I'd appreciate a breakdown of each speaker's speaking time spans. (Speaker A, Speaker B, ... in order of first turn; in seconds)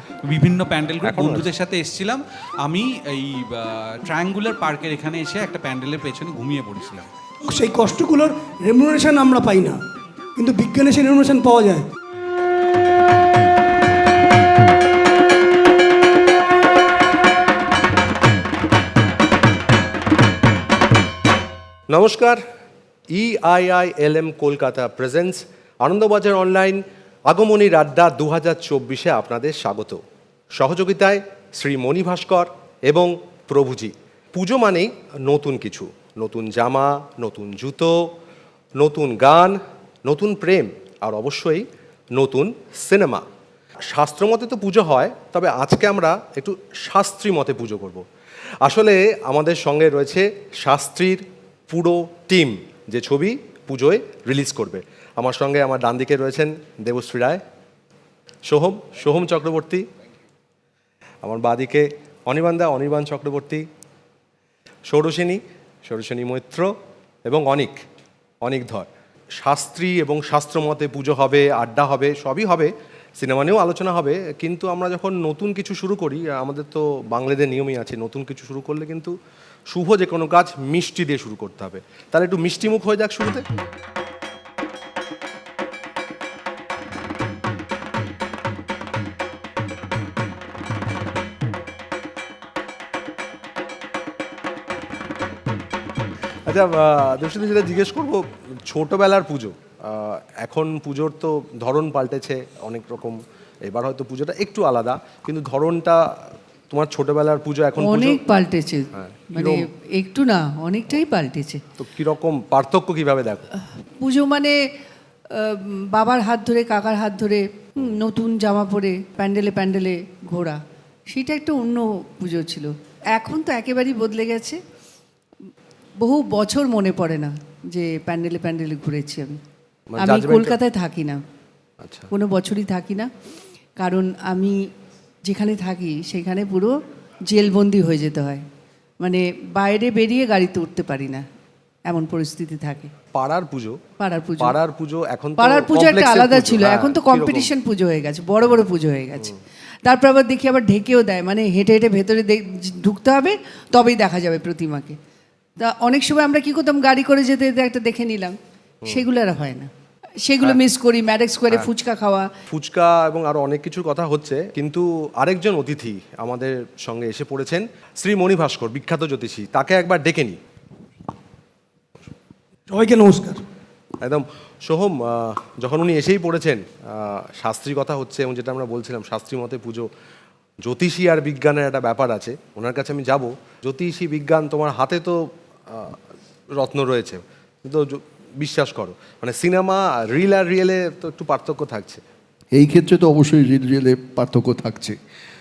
Speaker A: 0.3-7.0
Speaker B: 1.0-1.5, 21.9-22.4, 23.1-30.0, 30.6-38.1, 38.8-43.2, 43.9-48.0, 48.6-57.4, 58.5-59.8, 61.2-63.6, 64.9-66.7, 67.2-67.8, 68.4-68.9, 69.4-79.1, 79.7-83.4, 96.5-108.2, 108.9-109.6, 111.8-113.5, 129.9-130.6, 131.8-132.1, 143.1-143.8, 144.4-147.5, 162.5-170.4, 174.0-179.9, 180.6-186.0, 186.6-192.0
Speaker C: 7.4-9.8, 10.4-11.8, 172.7-173.4
Speaker D: 107.8-111.6, 114.0-114.5, 115.3-120.6, 121.1-124.6, 126.0-129.4, 130.0-131.2, 132.1-133.1, 133.8-134.6, 135.2-136.7, 137.3-138.4, 139.0-141.2, 141.8-142.9, 144.0-144.6, 145.4-149.3, 149.8-154.9, 155.6-159.7, 160.2-162.3
Speaker E: 192.5-194.9